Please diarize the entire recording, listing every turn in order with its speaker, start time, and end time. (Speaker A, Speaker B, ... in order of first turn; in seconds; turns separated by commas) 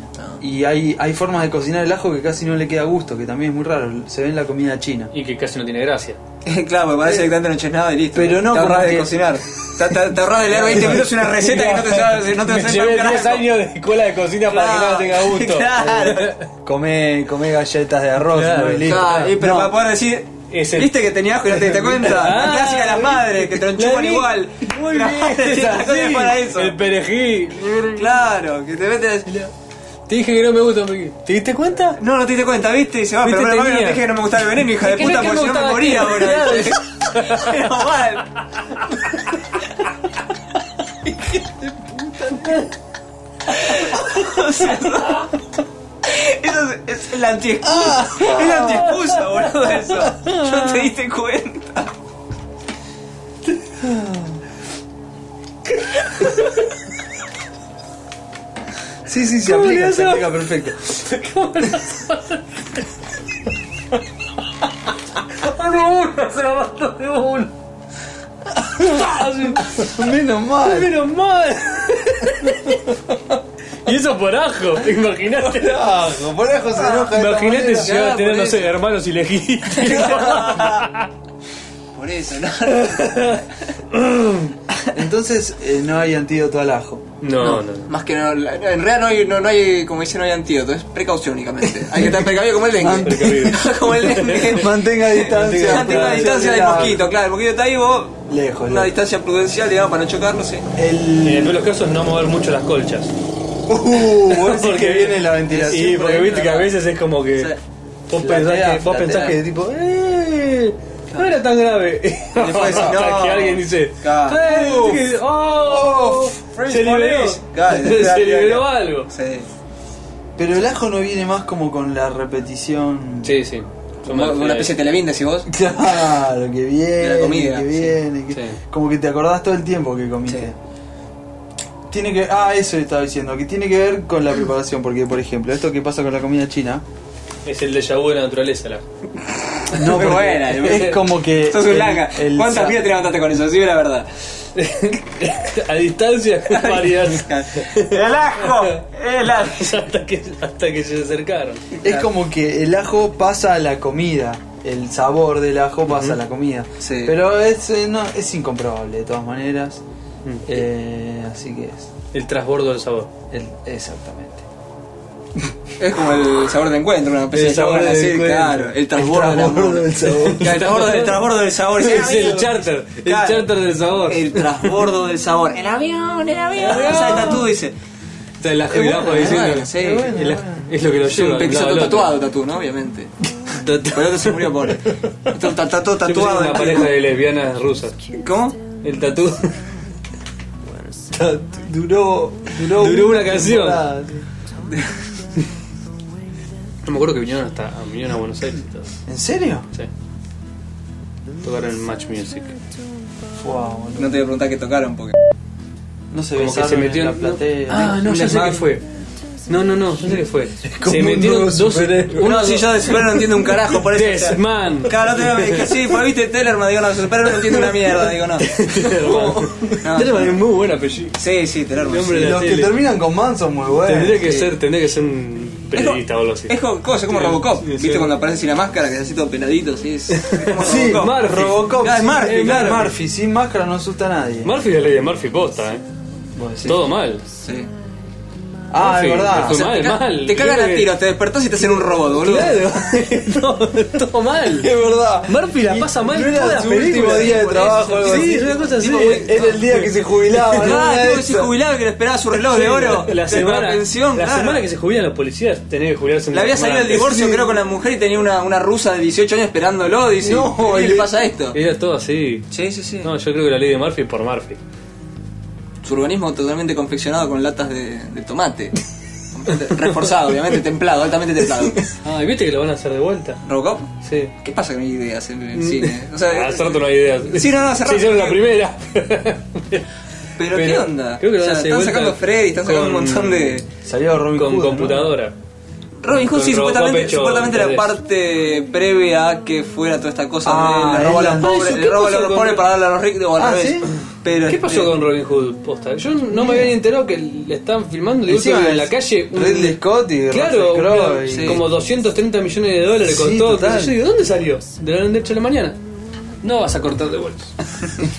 Speaker A: 0.2-0.4, Speaker B: 0.4-5.1, Speaker C: 5.1-6.2, Speaker A: 6.5-13.5, Speaker B: 8.1-9.2, Speaker C: 10.7-16.5, Speaker A: 14.5-16.4, Speaker B: 15.8-19.8, Speaker C: 18.3-19.4, Speaker A: 18.8-26.8, Speaker C: 20.5-20.9, Speaker C: 21.5-28.2, Speaker A: 27.7-29.3, Speaker C: 29.3-29.5, Speaker C: 30.1-32.0, Speaker A: 32.0-38.4, Speaker C: 33.2-34.0, Speaker C: 34.8-37.7, Speaker B: 42.0-42.5, Speaker A: 43.5-45.3, Speaker C: 44.1-44.8, Speaker A: 46.0-51.9, Speaker B: 47.6-48.9, Speaker C: 48.3-50.4, Speaker B: 50.1-50.7, Speaker B: 53.8-54.4, Speaker C: 56.2-56.4, Speaker B: 59.1-60.8, Speaker C: 59.4-62.4, Speaker C: 65.3-67.5, Speaker B: 68.6-70.9, Speaker C: 68.8-70.0, Speaker C: 70.6-73.0, Speaker C: 73.8-76.0, Speaker B: 75.4-78.0, Speaker A: 76.8-77.1, Speaker C: 77.1-81.1, Speaker A: 77.7-78.8, Speaker A: 79.7-80.9, Speaker B: 79.9-80.4, Speaker A: 81.9-83.5, Speaker C: 82.7-84.6, Speaker B: 84.9-87.0, Speaker C: 87.2-87.9, Speaker A: 87.4-100.7, Speaker B: 91.9-93.6, Speaker C: 92.9-96.9, Speaker B: 94.5-97.0, Speaker B: 98.3-98.9, Speaker B: 100.8-101.6, Speaker C: 101.2-103.1, Speaker B: 103.7-106.4, Speaker C: 104.1-107.5, Speaker A: 105.7-106.7, Speaker C: 108.1-119.1, Speaker B: 108.2-109.5, Speaker A: 112.4-114.9, Speaker B: 114.5-116.4, Speaker A: 116.5-119.5, Speaker B: 120.4-123.4, Speaker C: 123.2-124.8, Speaker A: 124.0-125.5, Speaker B: 125.5-130.6, Speaker A: 127.0-128.0, Speaker C: 128.3-128.6, Speaker B: 131.9-136.8, Speaker C: 137.4-138.8, Speaker A: 139.7-144.1, Speaker B: 139.7-142.8, Speaker C: 139.8-141.0, Speaker C: 144.6-151.6, Speaker A: 146.5-149.8, Speaker A: 151.7-152.1, Speaker B: 151.8-159.8, Speaker C: 155.9-156.2, Speaker A: 156.8-157.2, Speaker B: 160.5-161.9, Speaker C: 162.1-163.1, Speaker B: 163.3-164.4, Speaker A: 165.8-173.5, Speaker C: 167.3-168.7, Speaker B: 168.9-170.6, Speaker C: 170.2-174.7, Speaker A: 174.1-177.7, Speaker C: 176.6-177.4, Speaker C: 178.4-182.2, Speaker B: 178.7-180.7, Speaker A: 179.1-180.1, Speaker A: 181.0-183.1, Speaker C: 183.4-185.5, Speaker A: 183.9-186.9, Speaker C: 186.0-188.0, Speaker A: 188.1-188.6, Speaker C: 188.8-189.5, Speaker C: 191.2-191.4, Speaker B: 191.2-194.3, Speaker C: 192.6-193.9, Speaker C: 196.8-199.0, Speaker B: 199.1-199.7, Speaker C: 201.4-202.6, Speaker B: 203.4-204.2, Speaker A: 204.0-205.2, Speaker B: 206.1-208.5, Speaker C: 206.4-208.8, Speaker A: 207.9-208.7, Speaker C: 209.5-215.7, Speaker B: 210.6-212.3, Speaker A: 212.2-220.4, Speaker C: 218.4-221.2, Speaker A: 221.2-222.4, Speaker C: 221.8-222.8, Speaker B: 222.2-224.2, Speaker C: 223.8-226.6, Speaker A: 224.2-224.6, Speaker A: 225.7-232.9, Speaker C: 227.1-228.1, Speaker C: 230.1-231.8, Speaker B: 230.6-234.5, Speaker C: 234.4-235.8, Speaker B: 236.3-236.8, Speaker C: 236.6-237.2, Speaker A: 237.4-237.7, Speaker B: 238.7-239.7, Speaker C: 238.8-241.0, Speaker A: 239.4-242.8, Speaker C: 242.1-244.7, Speaker B: 244.5-251.5, Speaker C: 245.3-247.4, Speaker A: 247.0-249.6, Speaker C: 248.0-250.8, Speaker A: 250.6-254.7, Speaker C: 252.5-257.2, Speaker A: 256.3-261.6, Speaker B: 256.9-257.6, Speaker B: 260.2-261.1, Speaker C: 261.5-262.5, Speaker A: 262.5-263.1, Speaker C: 263.0-264.6, Speaker A: 265.8-268.8, Speaker A: 269.3-271.9, Speaker C: 271.8-273.4, Speaker A: 273.4-278.4, Speaker C: 274.0-274.3, Speaker C: 275.5-279.9, Speaker A: 280.4-283.7, Speaker C: 280.4-283.6, Speaker B: 283.8-285.1, Speaker C: 284.4-285.4, Speaker A: 286.0-295.0, Speaker C: 286.1-287.9, Speaker B: 290.4-291.6, Speaker C: 291.4-292.7, Speaker B: 293.4-293.9, Speaker C: 294.5-305.8, Speaker B: 296.3-296.8, Speaker B: 298.3-301.6, Speaker A: 301.3-301.6, Speaker B: 303.1-304.0, Speaker C: 306.4-307.6